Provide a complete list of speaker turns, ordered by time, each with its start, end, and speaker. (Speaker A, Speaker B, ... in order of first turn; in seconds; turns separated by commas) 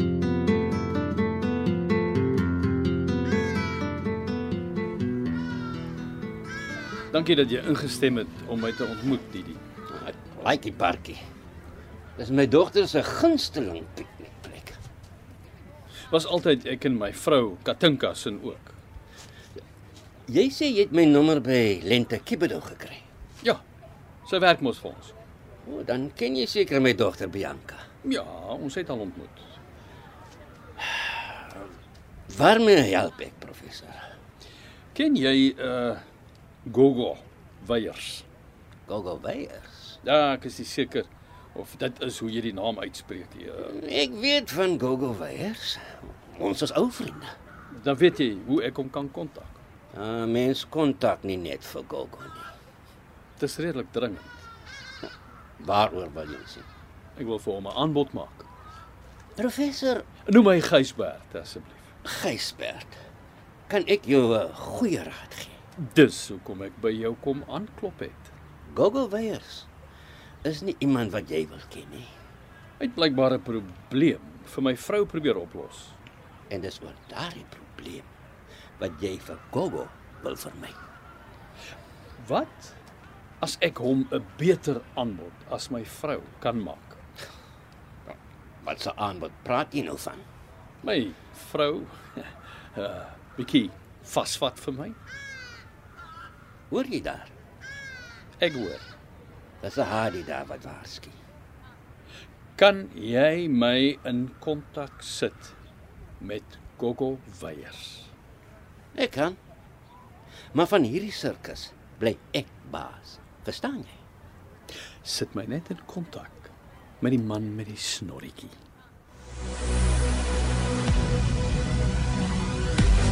Speaker A: 7.1-9.6, Speaker B: 9.9-11.2, Speaker B: 12.2-14.8, Speaker A: 16.1-18.8, Speaker B: 20.3-23.1, Speaker A: 24.2-25.1, Speaker B: 25.6-27.9, Speaker A: 28.0-29.4, Speaker B: 30.8-31.4, Speaker B: 32.3-34.0, Speaker A: 34.9-36.0, Speaker A: 36.6-38.2, Speaker B: 38.9-40.0, Speaker A: 40.0-43.7, Speaker B: 43.7-47.3, Speaker A: 47.7-49.6, Speaker B: 49.9-52.5, Speaker A: 53.4-54.4, Speaker B: 55.6-56.7, Speaker A: 57.2-58.5, Speaker B: 59.4-60.1, Speaker A: 60.2-61.9, Speaker B: 62.0-63.0, Speaker B: 63.7-65.6, Speaker A: 65.8-68.3, Speaker B: 68.7-69.7, Speaker B: 70.4-72.1, Speaker A: 72.8-76.0, Speaker B: 76.5-78.1, Speaker B: 78.8-80.8, Speaker A: 82.2-82.8, Speaker A: 83.4-87.0, Speaker B: 88.6-90.2, Speaker A: 90.8-95.0, Speaker B: 96.7-97.3, Speaker A: 98.4-98.9, Speaker B: 99.6-101.2, Speaker A: 102.6-105.5, Speaker A: 106.2-108.1, Speaker B: 109.0-109.4, Speaker B: 110.5-114.0, Speaker A: 115.0-118.6